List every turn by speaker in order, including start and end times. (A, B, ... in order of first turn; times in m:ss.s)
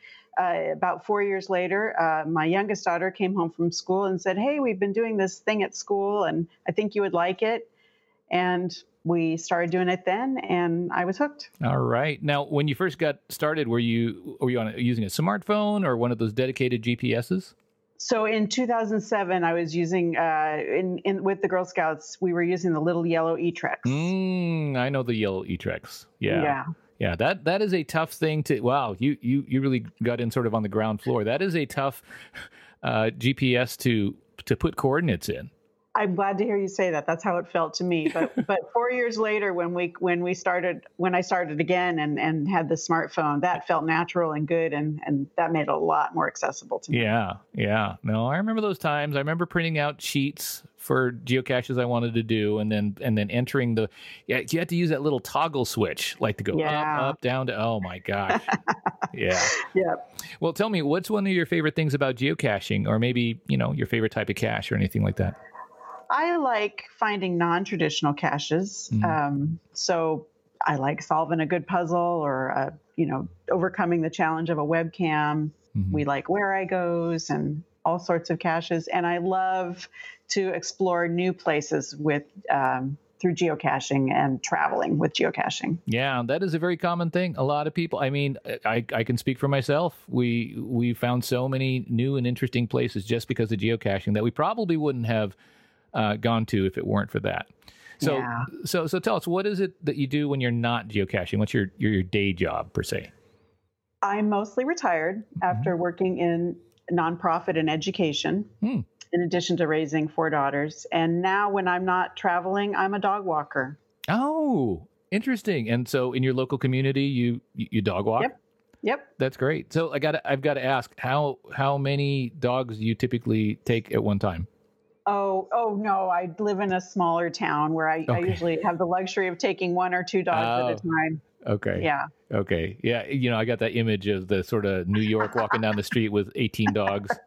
0:00.4-0:07.7 A
0:08.3-0:11.5 A
0:11.6-0:17.5 B
0:18.0-0:24.1 A
0:23.8-0:35.5 B
0:26.3-0:26.6 A
0:36.0-0:47.1 A
0:46.9-0:58.5 B
0:56.5-0:57.2 A
0:59.1-0:59.6 B
0:59.5-1:00.0 A
1:00.4-1:05.4 B
1:06.1-1:25.8 A
1:25.9-1:35.4 B
1:35.9-1:43.1 B
1:38.0-1:38.5 A
1:44.0-1:48.5 A
1:49.1-1:53.8 A
1:54.1-1:58.3 B
1:58.2-1:59.1 A
1:59.2-2:04.5 B
2:05.1-2:11.2 A
2:08.1-2:08.4 B
2:10.3-2:10.8 B
2:11.4-2:17.2 B
2:11.8-2:12.1 A